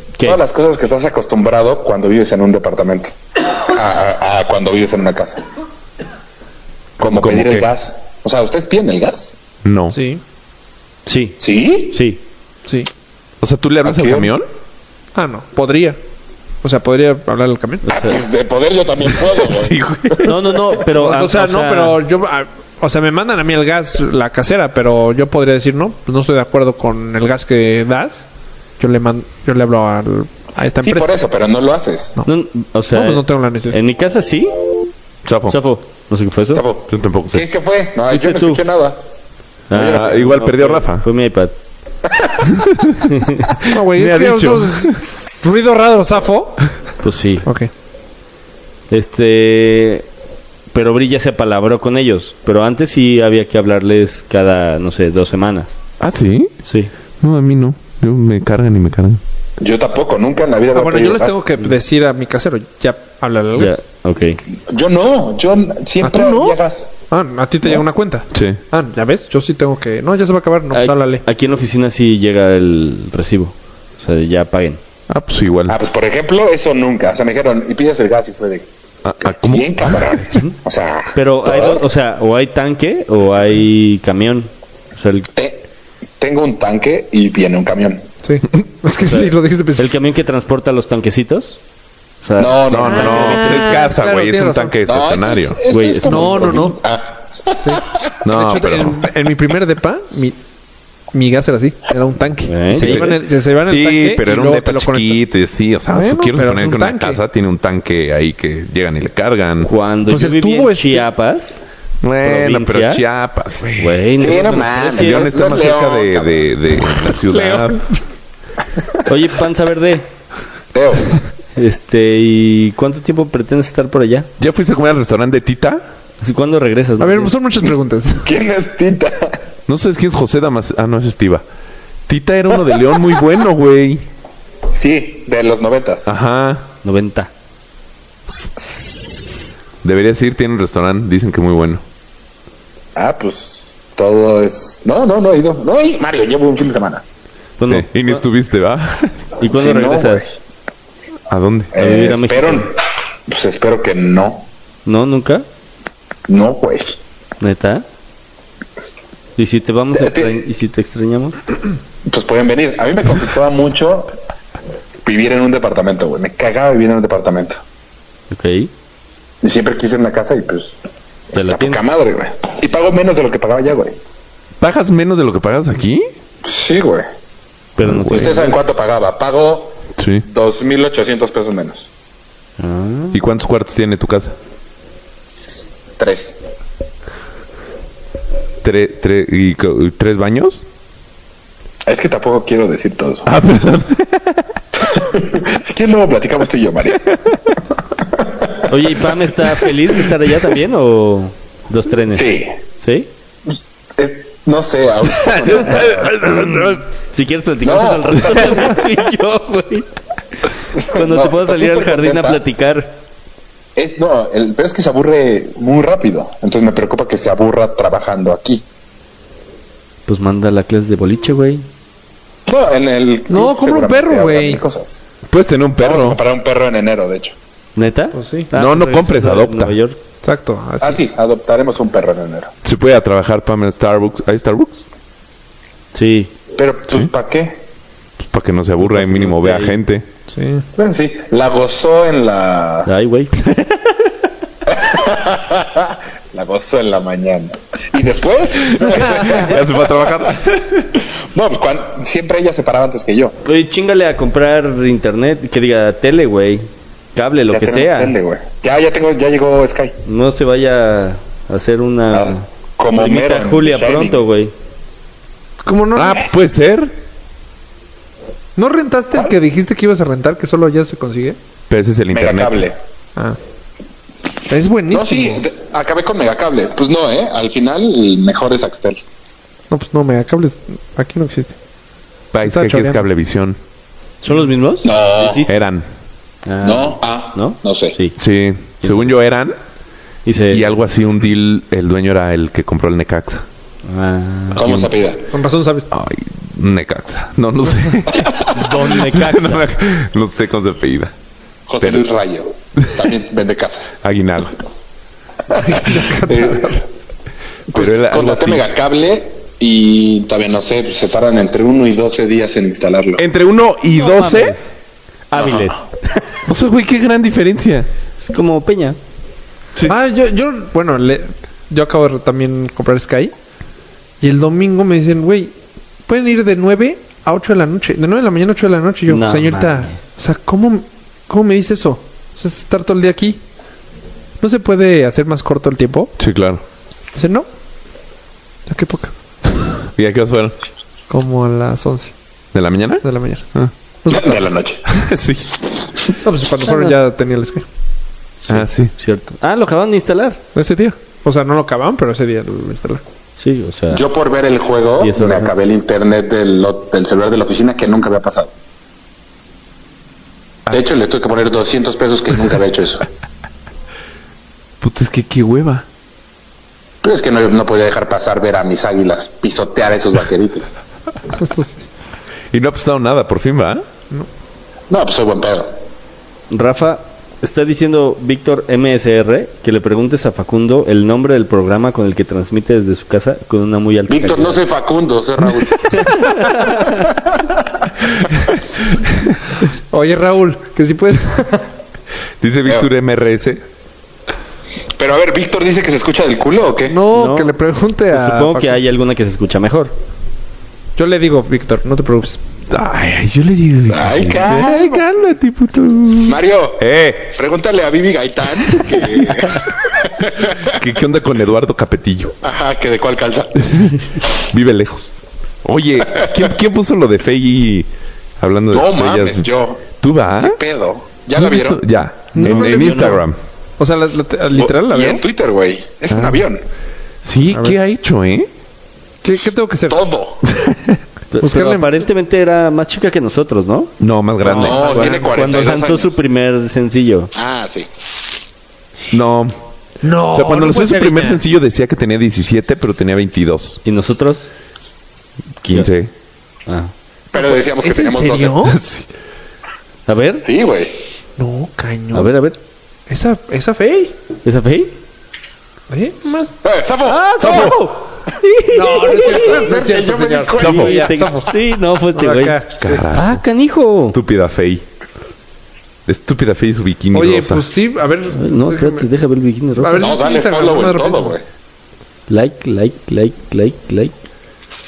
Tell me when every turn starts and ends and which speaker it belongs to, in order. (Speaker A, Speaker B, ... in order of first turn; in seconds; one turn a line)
Speaker A: 0.2-0.4
Speaker B: 0.2-5.4
Speaker B: 7.0-9.4
Speaker C: 7.0-7.7
Speaker C: 9.6-10.0
Speaker D: 9.9-10.2
Speaker A: 11.1-12.2
Speaker B: 11.4-12.0
Speaker C: 13.4-14.4
Speaker B: 13.8-14.3
Speaker D: 15.2-16.0
Speaker D: 16.6-17.9
Speaker A: 17.9-18.2
Speaker B: 17.9-20.4
Speaker C: 19.4-20.3
Speaker A: 20.2-22.0
Speaker D: 20.9-28.2
Speaker D: 28.8-31.2
Speaker B: 30.8-32.2
Speaker A: 32.2-34.7
Speaker D: 32.9-33.8
Speaker C: 35.2-35.6
Speaker A: 35.5-36.7
Speaker B: 36.5-39.0
Speaker C: 36.9-37.5
Speaker A: 38.1-38.6
Speaker A: 39.7-41.5
Speaker B: 39.7-40.2
Speaker C: 39.8-41.0
Speaker B: 42.1-42.5
Speaker C: 42.5-43.0
Speaker A: 43.1-44.6
Speaker D: 43.7-46.7
Speaker C: 44.0-44.7
Speaker A: 47.0-47.5
Speaker A: 48.9-50.1
Speaker A: 50.7-55.8
Speaker C: 56.0-56.5
Speaker A: 56.6-56.9
Speaker C: 57.2-59.2
Speaker B: 59.6-61.5
Speaker D: 60.7-63.8
Speaker A: 63.6-64.4
Speaker B: 64.7-66.9
Speaker D: 66.0-66.6
Speaker D: 67.1-71.2
Speaker C: 68.3-68.6
Speaker A: 70.7-74.8
Speaker C: 75.1-75.8
Speaker B: 75.7-78.7
Speaker C: 79.0-80.1
Speaker B: 79.3-81.8
Speaker A: 80.3-80.5
Speaker A: 81.1-85.3
Speaker B: 85.3-85.6
Speaker B: 86.2-88.1
Speaker D: 88.2-89.8
Speaker A: 89.0-91.6
Speaker A: 92.2-93.7
Speaker B: 92.4-93.5
Speaker C: 92.7-95.6
Speaker D: 93.1-94.8
Speaker B: 94.8-98.2
Speaker A: 95.7-96.6
Speaker D: 96.0-96.8
Speaker D: 97.7-100.4
Speaker C: 98.2-99.1
Speaker D: 101.1-105.2
Speaker A: 102.5-103.2
Speaker C: 102.8-109.7
Speaker D: 105.9-107.2
Speaker A: 109.6-111.6
Speaker D: 110.1-111.1
Speaker C: 112.0-114.0
Speaker A: 112.2-113.0
Speaker A: 113.8-115.4
Speaker B: 114.2-116.4
Speaker C: 114.9-117.8
Speaker D: 117.1-118.0
Speaker A: 119.0-120.1
Speaker B: 120.7-121.2
Speaker A: 121.6-124.3
Speaker C: 124.4-125.8
Speaker A: 126.2-127.3
Speaker D: 127.0-128.3
Speaker B: 128.2-129.4
Speaker C: 129.7-131.4
Speaker C: 132.1-134.1
Speaker B: 134.7-136.1
Speaker C: 136.1-136.7
Speaker A: 136.8-137.3
Speaker C: 138.3-139.2
Speaker C: 139.8-141.8
Speaker B: 143.0-147.0
Speaker A: 147.6-148.2
Speaker C: 147.7-149.3
Speaker A: 149.4-150.3
Speaker B: 149.4-150.4
Speaker C: 151.3-151.7
Speaker B: 151.7-154.5
Speaker A: 151.8-152.7
Speaker A: 154.9-155.5
Speaker B: 156.3-157.0
Speaker A: 157.4-157.8
Speaker A: 159.4-161.4
Speaker B: 159.9-160.4
Speaker B: 162.1-164.2
Speaker B: 165.0-167.6
Speaker A: 168.3-168.7
Speaker B: 169.4-174.0
Speaker A: 171.3-171.8
Speaker C: 174.6-176.1
Speaker B: 176.4-177.1
Speaker A: 177.8-178.6
Speaker C: 177.9-178.2
Speaker B: 178.1-181.9
Speaker C: 180.0-180.2
Speaker A: 182.6-183.2
Speaker C: 183.1-184.3
Speaker B: 186.0-186.4
Speaker C: 188.6-190.6
Speaker B: 191.9-193.3
Speaker C: 193.3-194.4
Speaker B: 194.8-197.0
Speaker B: 198.2-198.7
Speaker A: 198.7-203.1
Speaker B: 202.1-202.6
Speaker B: 203.5-206.3
Speaker C: 205.7-206.7
Speaker A: 206.2-209.9
Speaker B: 207.6-208.8
Speaker B: 210.7-212.4
Speaker A: 210.8-212.9
Speaker B: 213.8-218.6
Speaker A: 220.1-221.7
Speaker B: 222.5-225.0
Speaker D: 223.3-224.6
Speaker C: 225.3-226.2
Speaker B: 225.8-227.4
Speaker A: 227.8-230.0
Speaker D: 228.1-228.5
Speaker C: 228.5-229.8
Speaker D: 230.2-231.0
Speaker B: 230.8-232.5
Speaker C: 232.6-234.8
Speaker A: 235.9-236.3
Speaker B: 236.6-237.6
Speaker C: 238.3-240.1
Speaker A: 238.9-239.8
Speaker D: 240.3-240.7
Speaker B: 240.8-242.9
Speaker A: 242.9-243.8
Speaker B: 244.7-250.3
Speaker C: 248.8-250.9
Speaker B: 251.0-253.3
Speaker A: 253.4-258.2
Speaker B: 257.5-260.0
Speaker A: 260.1-264.5
Speaker B: 262.1-264.2
Speaker D: 265.6-266.3
Speaker C: 265.9-266.9
Speaker D: 268.6-271.4
Speaker C: 271.7-272.6
Speaker B: 272.1-272.8
Speaker D: 274.5-275.4
Speaker B: 274.9-279.0
Speaker D: 279.7-281.6
Speaker C: 282.3-283.6
Speaker D: 282.5-283.0
Speaker A: 284.2-285.6
Speaker B: 284.8-285.5
Speaker C: 285.5-285.9
Speaker A: 286.5-288.2
Speaker B: 286.6-287.9
Speaker C: 288.2-289.6
Speaker A: 288.8-289.1
Speaker A: 290.3-290.8
Speaker C: 290.5-293.4
Speaker A: 293.9-294.6
Speaker B: 294.6-295.3
Speaker C: 294.6-294.9
Speaker D: 295.3-295.9
Speaker C: 295.9-301.1
Speaker B: 298.1-298.4
Speaker A: 298.5-299.7
Speaker B: 301.7-304.0
Speaker C: 304.0-304.6
Speaker B: 305.5-306.8
Speaker D: 305.6-306.8
Speaker C: 307.7-308.7
Speaker B: 307.7-313.2
Speaker C: 313.2-314.6
Speaker A: 313.9-314.8
Speaker A: 315.3-316.4
Speaker B: 315.4-315.7
Speaker C: 316.5-317.9
Speaker A: 318.2-319.0
Speaker D: 319.9-323.3
Speaker D: 324.2-325.5
Speaker D: 326.1-333.4
Speaker A: 329.1-330.0
Speaker D: 334.4-336.1
Speaker C: 336.2-336.6
Speaker D: 337.1-337.5
Speaker D: 338.7-339.7
Speaker C: 340.0-340.6
Speaker D: 341.1-342.1
Speaker C: 342.5-343.7
Speaker D: 343.0-343.4
Speaker D: 344.0-344.4
Speaker B: 344.1-344.8
Speaker C: 344.9-345.5
Speaker D: 346.2-347.6
Speaker A: 346.6-347.0
Speaker A: 348.4-350.4
Speaker C: 348.5-348.9
Speaker D: 350.6-353.0
Speaker A: 353.4-354.0
Speaker B: 353.9-358.5
Speaker A: 355.0-355.6
Speaker B: 360.7-363.1
Speaker C: 364.8-365.9
Speaker B: 367.0-370.7
Speaker D: 371.3-371.8
Speaker C: 372.5-373.9
Speaker B: 374.9-375.8
Speaker A: 376.5-384.6
Speaker B: 384.1-386.2
Speaker A: 385.9-387.1
Speaker B: 387.1-387.7
Speaker D: 389.9-391.7
Speaker C: 392.4-393.6
Speaker B: 395.0-397.0
Speaker D: 396.9-398.8
Speaker A: 397.1-397.6
Speaker A: 398.1-399.9
Speaker D: 401.0-402.4
Speaker C: 402.7-407.3
Speaker B: 403.9-405.3
Speaker B: 406.2-410.8
Speaker C: 410.6-412.4
Speaker B: 412.4-413.9
Speaker C: 413.7-417.9
Speaker B: 416.2-416.4
Speaker C: 418.4-419.5
Speaker B: 418.7-421.8
Speaker C: 420.0-420.6
Speaker C: 421.4-423.4
Speaker D: 422.3-423.2
Speaker A: 422.4-423.2
Speaker D: 423.8-425.2
Speaker B: 424.5-426.6
Speaker C: 426.1-426.4
Speaker C: 427.2-428.5
Speaker D: 427.5-427.8
Speaker D: 429.2-430.0
Speaker B: 429.9-430.4
Speaker A: 431.3-437.3
Speaker D: 431.4-432.0
Speaker C: 434.0-434.9
Speaker D: 434.5-435.3
Speaker B: 434.5-436.2
Speaker B: 437.4-437.9
Speaker C: 439.1-439.6
Speaker D: 440.0-441.4
Speaker C: 440.3-443.8
Speaker A: 443.9-444.5
Speaker C: 445.6-446.1
Speaker A: 446.7-446.9
Speaker B: 447.3-448.7
Speaker D: 447.3-448.8
Speaker C: 448.6-449.1
Speaker A: 450.1-450.5
Speaker B: 450.4-450.9
Speaker D: 451.4-452.3
Speaker A: 452.1-452.6
Speaker D: 453.1-454.1
Speaker A: 454.4-454.9
Speaker D: 455.9-456.6
Speaker B: 456.6-457.8
Speaker A: 457.1-459.5
Speaker D: 458.7-461.6
Speaker B: 459.3-461.2
Speaker A: 460.6-462.6
Speaker C: 460.6-460.9
Speaker D: 462.1-463.0
Speaker C: 462.8-463.4
Speaker A: 463.1-464.2
Speaker C: 464.1-464.8
Speaker C: 466.1-467.7
Speaker D: 467.1-469.1
Speaker A: 468.3-470.1
Speaker D: 469.8-471.4
Speaker B: 470.0-471.4
Speaker A: 472.3-474.2